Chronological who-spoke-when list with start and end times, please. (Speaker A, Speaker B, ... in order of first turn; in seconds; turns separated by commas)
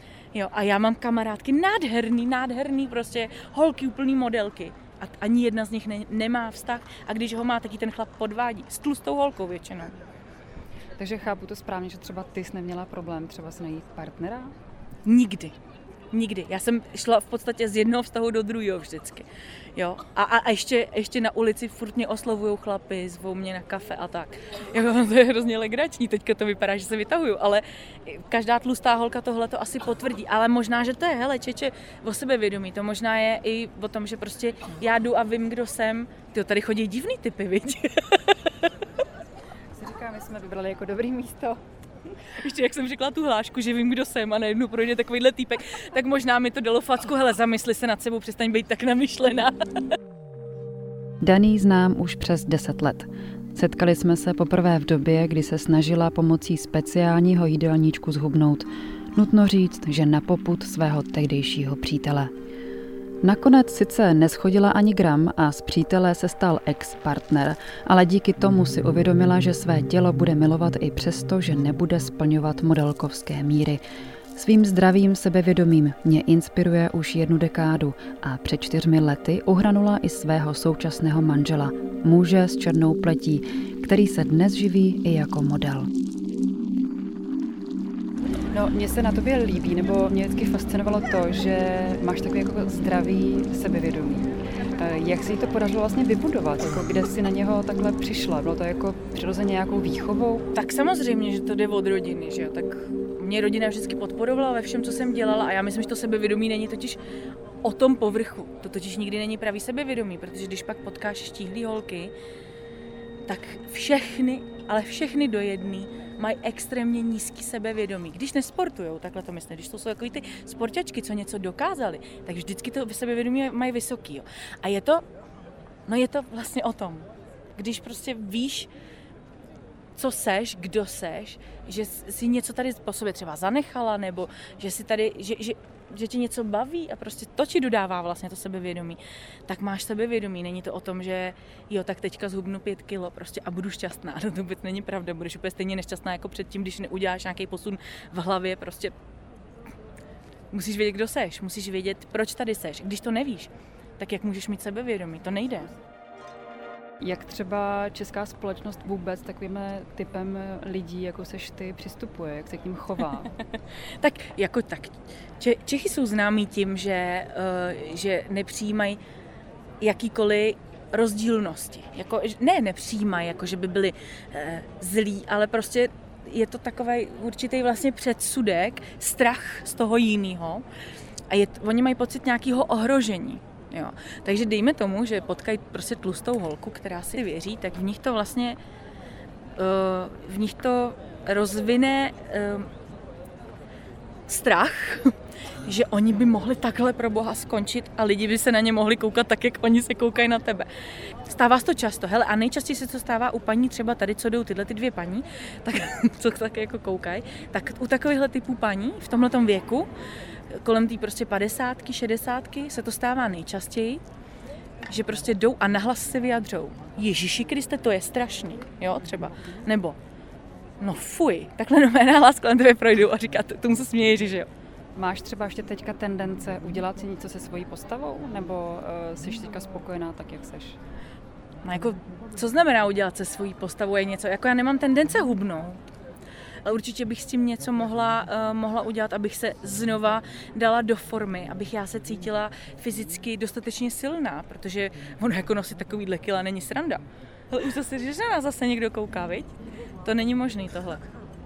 Speaker A: 0.3-9.9, Speaker B: 11.0-14.5, Speaker A: 15.0-15.5, Speaker A: 16.1-38.7, Speaker B: 39.7-41.6, Speaker A: 42.4-49.6, Speaker C: 51.2-62.3, Speaker C: 63.2-73.8, Speaker C: 74.3-85.9, Speaker B: 88.5-100.5, Speaker A: 100.5-107.0, Speaker A: 107.6-112.1, Speaker A: 113.3-125.0, Speaker A: 125.9-128.7, Speaker A: 130.0-148.9, Speaker A: 150.5-155.7, Speaker B: 157.0-163.3, Speaker A: 164.0-169.0, Speaker A: 169.8-180.6, Speaker A: 181.3-188.6, Speaker A: 189.6-192.7, Speaker A: 194.3-195.1, Speaker A: 195.6-200.7, Speaker A: 201.2-209.9, Speaker A: 210.5-214.0, Speaker A: 214.9-220.0, Speaker A: 220.8-224.5, Speaker B: 224.9-230.8, Speaker A: 231.6-235.8, Speaker A: 236.6-249.5, Speaker A: 250.0-251.1